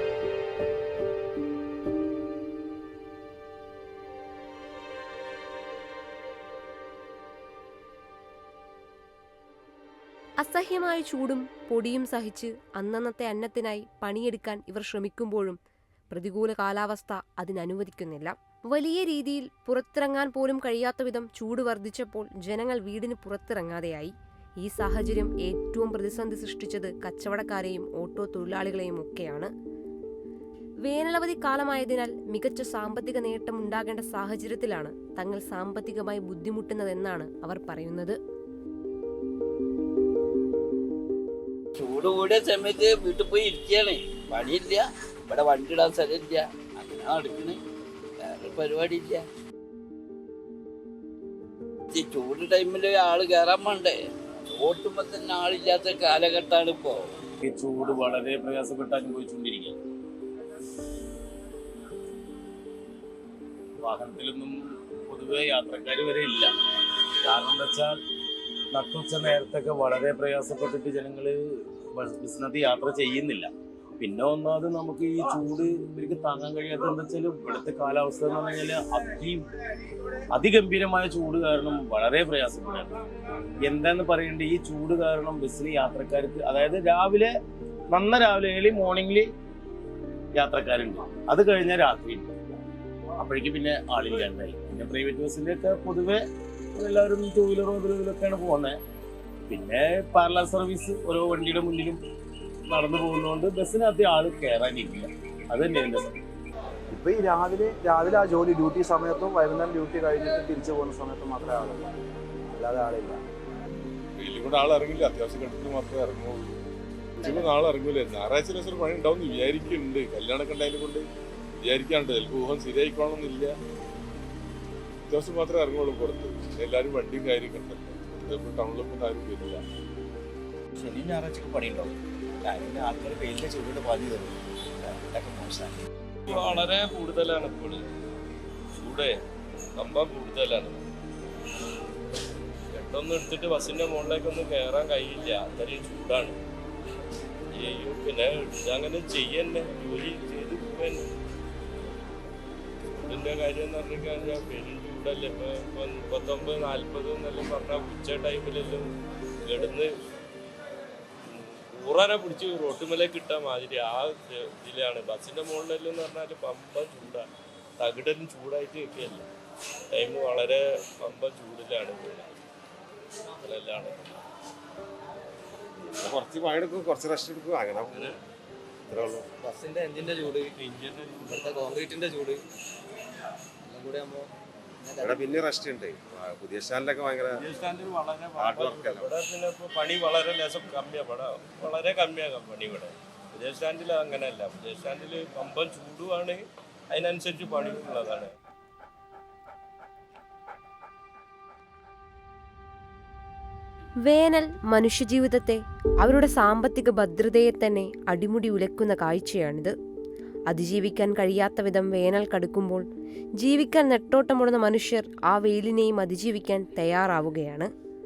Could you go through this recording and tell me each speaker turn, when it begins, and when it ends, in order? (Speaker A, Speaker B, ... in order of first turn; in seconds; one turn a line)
Speaker A: 10.4-15.6
Speaker A: 16.1-29.5
Speaker A: 30.9-38.2
Speaker B: 41.8-47.6
Speaker B: 48.2-49.3
Speaker B: 51.9-54.0
Speaker B: 54.5-57.1
Speaker C: 57.4-59.8
Speaker C: 63.8-66.5
Speaker C: 67.2-68.0
Speaker C: 68.7-79.5
Speaker C: 80.3-82.9
Speaker C: 83.6-87.3
Speaker C: 87.9-89.3
Speaker C: 90.4-92.3
Speaker C: 93.2-96.2
Speaker C: 96.8-98.8
Speaker C: 99.5-102.0
Speaker C: 102.7-106.2
Speaker D: 106.9-112.0
Speaker D: 112.5-113.2
Speaker E: 114.2-116.6
Speaker E: 117.2-121.0
Speaker E: 121.6-123.5
Speaker E: 125.1-129.6
Speaker F: 130.8-134.4
Speaker F: 135.0-135.8
Speaker G: 136.3-137.8
Speaker G: 138.8-139.2
Speaker G: 139.8-140.8
Speaker G: 142.7-146.4
Speaker G: 147.5-151.0
Speaker G: 153.0-158.9
Speaker G: 159.5-159.9
Speaker G: 161.3-167.3
Speaker G: 167.8-169.3
Speaker G: 169.9-172.4
Speaker G: 173.4-174.2
Speaker H: 176.1-177.9
Speaker I: 179.4-180.5
Speaker G: 180.2-181.7
Speaker I: 181.2-182.4
Speaker I: 183.7-184.3
Speaker I: 184.9-185.4
Speaker H: 185.1-187.3
Speaker G: 187.3-198.3
Speaker H: 188.4-189.0
Speaker A: 204.1-209.7
Speaker A: 210.5-212.8
Speaker A: 213.4-217.7